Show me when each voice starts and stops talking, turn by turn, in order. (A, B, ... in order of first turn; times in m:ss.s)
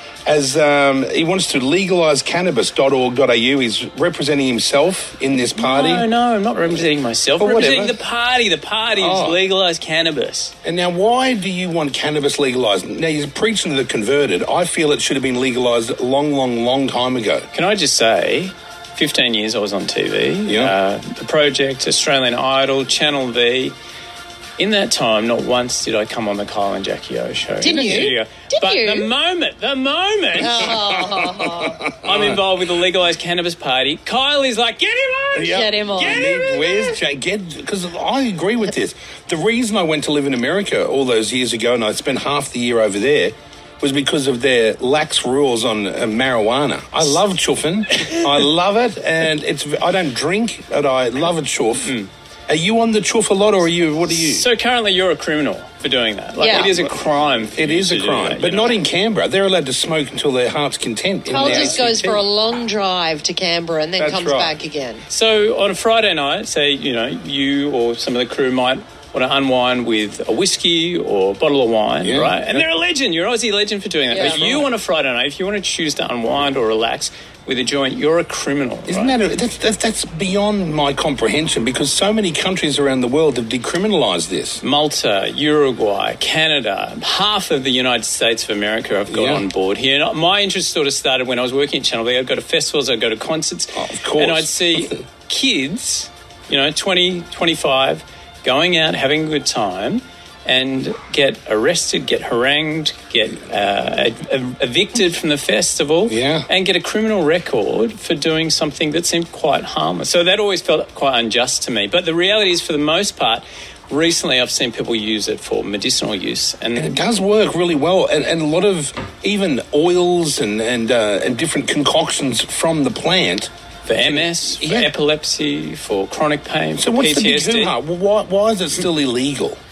0:00.3-0:06.1 A
0:05.6-0:10.5 B
0:07.4-0:08.0 A
0:09.0-0:09.4 A
0:10.6-0:17.5 A
0:17.5-0:23.8 B
0:20.5-0:20.7 A
0:24.6-0:30.8 B
0:27.6-0:29.1 C
0:27.8-0:28.1 A
0:30.4-0:31.8 C
0:30.5-0:32.5 A
0:32.0-0:37.0 B
0:35.3-0:52.0 A
0:35.5-0:36.4 C
0:48.0-0:48.2 B
0:51.8-0:52.1 B
0:52.5-0:54.5 A
0:54.1-0:58.8 B
0:56.4-0:56.7 C
0:56.5-1:02.2 A
1:01.3-1:05.0 C
1:01.4-1:01.8 B
1:04.0-1:04.6 A
1:05.1-1:19.2 B
1:12.0-1:12.7 A
1:14.1-1:14.6 C
1:14.2-1:14.7 A
1:18.9-1:24.6 A
1:24.6-1:57.0 B
1:29.1-1:29.4 A
1:33.8-1:35.0 A
1:46.1-1:46.5 A
1:56.8-2:04.9 A
2:03.9-2:07.7 B
2:06.8-2:09.6 A